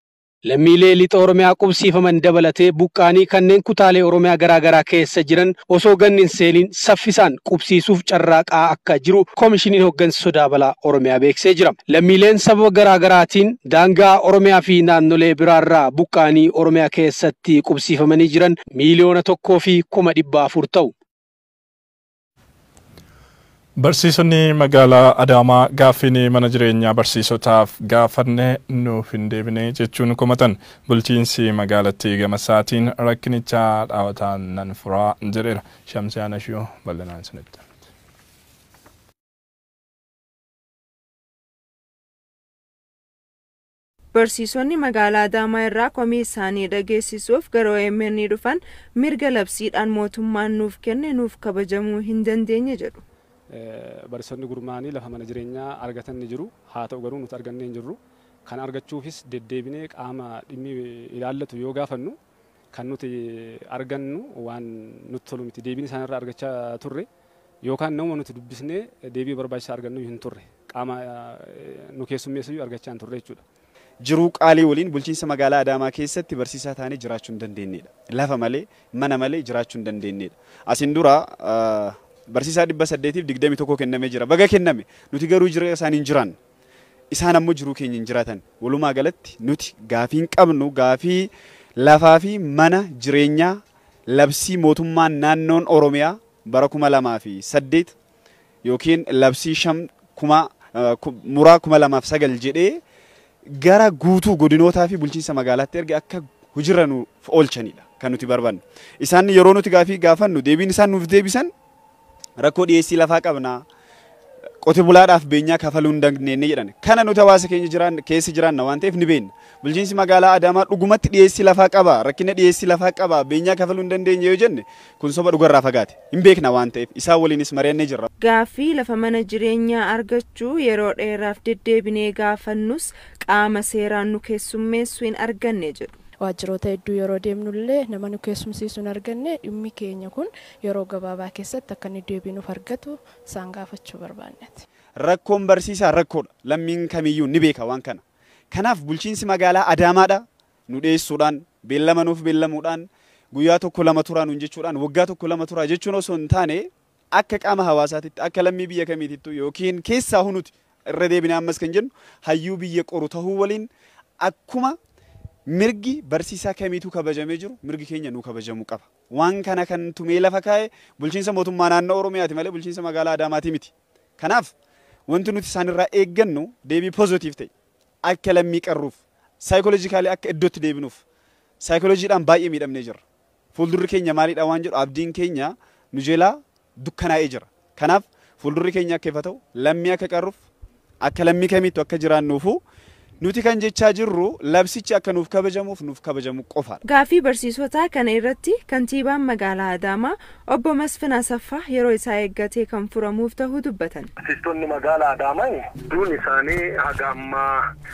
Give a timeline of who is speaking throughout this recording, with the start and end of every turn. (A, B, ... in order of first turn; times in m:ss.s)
0:00.5-0:20.9 A
0:23.8-0:37.6 B
0:44.2-0:53.0 C
0:53.5-1:02.2 D
1:02.7-1:07.1 D
1:07.6-1:13.4 D
1:14.0-1:26.4 E
1:27.1-1:37.9 E
1:38.6-1:42.8 E
1:43.6-1:51.5 E
1:52.4-1:53.6 E
1:54.6-2:08.1 E
2:08.2-2:15.9 C
2:16.2-2:24.6 F
2:25.0-2:43.7 E
2:44.2-2:44.8 E
2:45.5-2:54.5 E
2:55.1-2:57.5 E
2:58.0-3:01.0 E
3:01.6-3:03.0 E
3:03.6-3:10.4 E
3:11.0-3:12.6 E
3:13.2-3:16.8 E
3:16.8-3:24.1 C
3:24.2-3:27.6 G